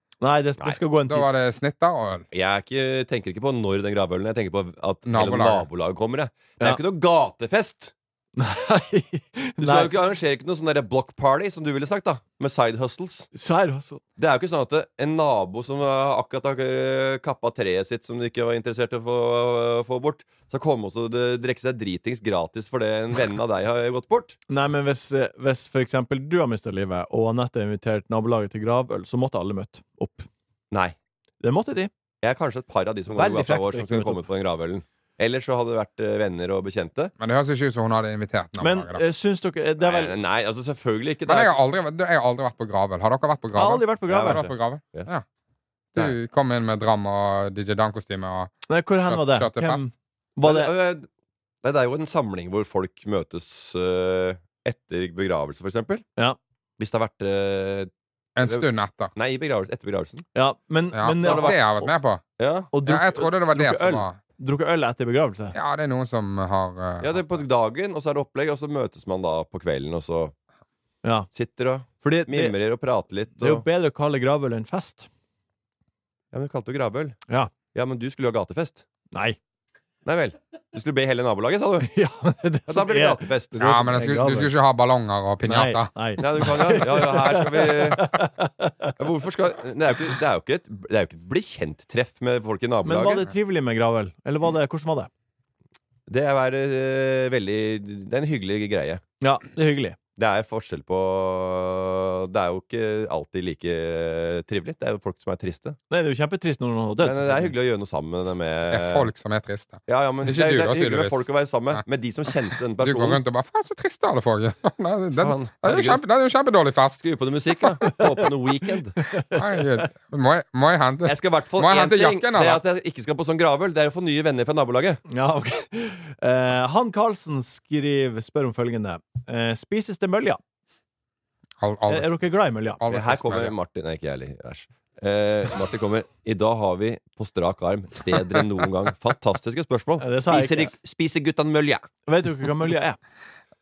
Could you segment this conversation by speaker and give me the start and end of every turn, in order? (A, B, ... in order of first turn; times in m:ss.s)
0:00.2-0:01.3 A
0:01.1-0:02.3 B
0:02.3-0:07.9 C
0:05.1-0:05.6 B
0:08.4-0:09.9 A
0:09.6-0:13.3 C
0:13.3-0:14.0 A
0:14.2-0:24.4 C
0:24.5-0:30.3 A
0:30.7-0:31.0 C
0:31.4-0:31.9 A
0:32.2-0:37.1 C
0:33.2-0:34.2 A
0:37.2-0:39.0 B
0:38.6-0:40.1 A
0:39.8-0:41.6 C
0:41.3-0:45.2 B
0:43.5-0:44.4 A
0:44.1-0:45.1 C
0:45.9-0:48.5 B
0:48.7-0:50.7 A
0:49.0-0:49.8 B
0:50.4-0:51.0 C
0:51.6-0:56.0 C
0:56.8-0:57.9 C
0:58.4-0:59.1 B
0:58.4-1:00.3 C
1:00.3-1:01.5 A
1:00.9-1:02.2 B
1:01.2-1:02.7 C
1:02.7-1:05.6 A
1:02.8-1:04.2 B
1:05.5-1:07.4 B
1:07.0-1:10.3 C
1:11.3-1:13.6 C
1:12.0-1:12.6 A
1:13.4-1:15.1 A
1:16.3-1:17.2 C
1:17.7-1:18.8 C
1:19.1-1:19.4 A
1:20.0-1:21.9 C
1:21.9-1:24.5 A
1:22.7-1:23.6 C
1:23.6-1:25.9 B
1:25.4-1:28.9 A
1:26.2-1:28.1 C
1:29.0-1:33.2 C
1:32.8-1:35.1 A
1:36.1-1:39.0 C
1:39.2-1:40.0 A
1:40.2-1:45.8 C
1:45.9-1:47.5 A
1:47.0-1:49.1 C
1:48.7-1:51.2 B
1:49.9-1:53.2 C
1:52.8-1:57.0 B
1:55.2-1:56.0 C
1:57.0-1:59.0 C
1:57.8-1:58.2 A
1:59.0-1:59.4 A
1:59.3-2:02.6 B
2:01.0-2:05.0 C
2:05.1-2:10.4 A
2:11.6-2:12.2 B
2:11.9-2:12.8 A
2:12.8-2:13.5 B
2:12.9-2:21.9 C
2:20.0-2:20.7 A
2:22.1-2:23.0 A